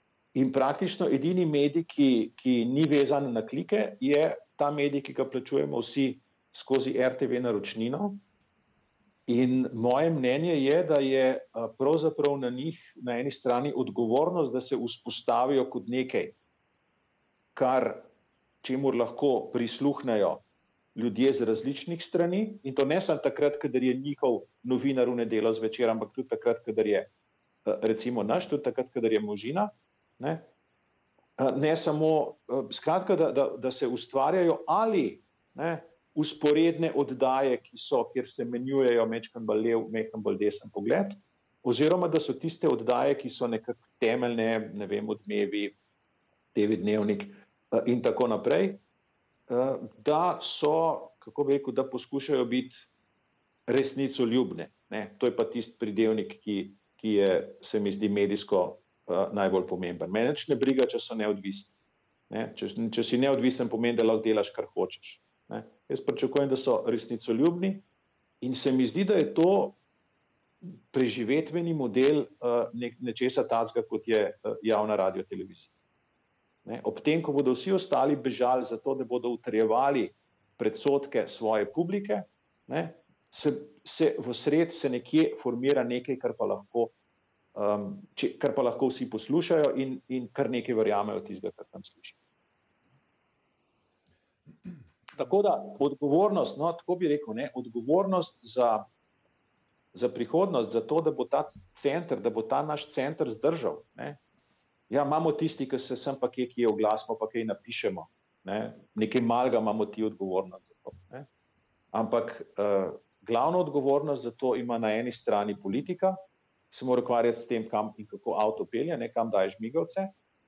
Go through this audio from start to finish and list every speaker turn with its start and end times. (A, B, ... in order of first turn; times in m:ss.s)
0:00.4-0:08.2 A
0:09.3-0:16.4 A
0:17.6-0:18.1 A
0:18.6-0:20.4 A
0:21.0-0:27.1 A
0:27.7-0:30.5 A
0:31.4-0:45.8 A
0:46.6-0:48.8 A
0:49.5-0:52.9 A
0:53.7-1:01.7 A
1:02.3-1:07.8 A
1:08.4-1:09.8 A
1:10.9-1:15.7 A
1:16.6-1:27.0 A
1:27.6-1:32.2 A
1:35.2-1:38.8 A
1:39.9-1:44.2 A
1:44.9-1:51.3 A
1:51.9-1:56.2 A
1:56.7-2:00.1 A